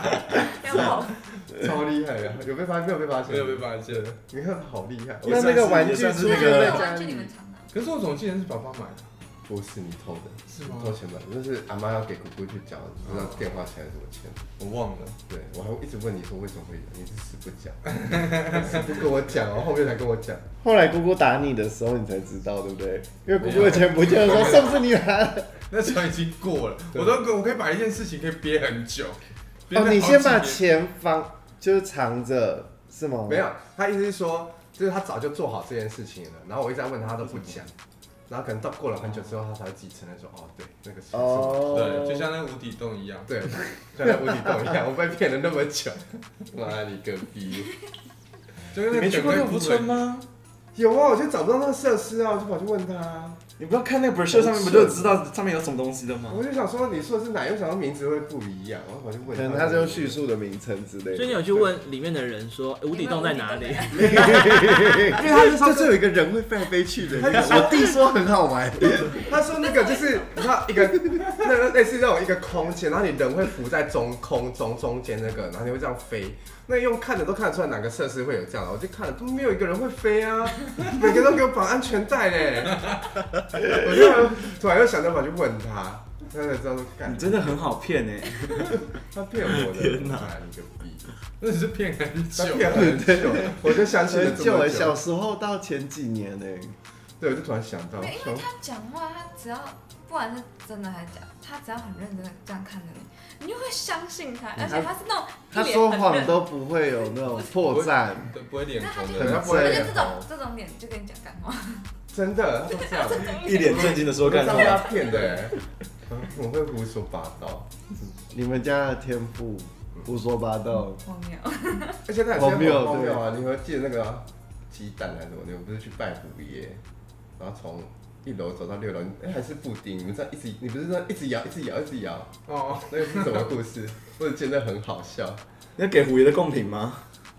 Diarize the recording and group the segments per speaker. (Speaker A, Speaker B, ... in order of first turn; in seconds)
Speaker A: 0.2-1.2, 6.1-7.7, 62.9-64.5, 69.6-70.4, 98.0-106.5, 107.1-107.5, 108.8-111.9, 112.7-114.1, 121.0-122.0
Speaker B: 1.4-5.5, 9.5-14.5, 15.3-20.4, 33.3-37.7, 38.3-42.1, 43.3-47.7, 50.8-53.4, 56.3-60.2, 65.1-66.0, 67.1-67.9, 69.2-83.0, 83.6-87.7, 89.1-91.1, 92.4-95.0, 97.2-98.5, 109.2-110.1, 112.1-115.6, 116.1-117.7, 122.1-126.8, 127.4-132.3, 132.9-135.4
Speaker C: 3.3-4.1, 7.7-9.1, 10.5-11.0, 14.6-15.2, 17.9-18.9, 23.4-24.8, 25.7-30.6, 41.7-43.3, 48.7-50.0, 91.4-93.2, 107.6-109.5, 132.5-133.5
Speaker D: 5.2-6.9, 48.9-50.3, 53.6-56.4, 87.1-88.9, 89.5-90.3, 113.3-115.0, 135.8-137.1
Speaker E: 5.2-7.3, 20.6-25.6, 29.7-33.5, 41.1-42.3, 54.3-55.1, 59.3-61.6, 64.0-69.3, 92.8-96.8, 104.6-104.9, 105.5-108.3, 109.1-110.2, 118.3-121.0, 122.3-123.2
Speaker F: 61.1-64.9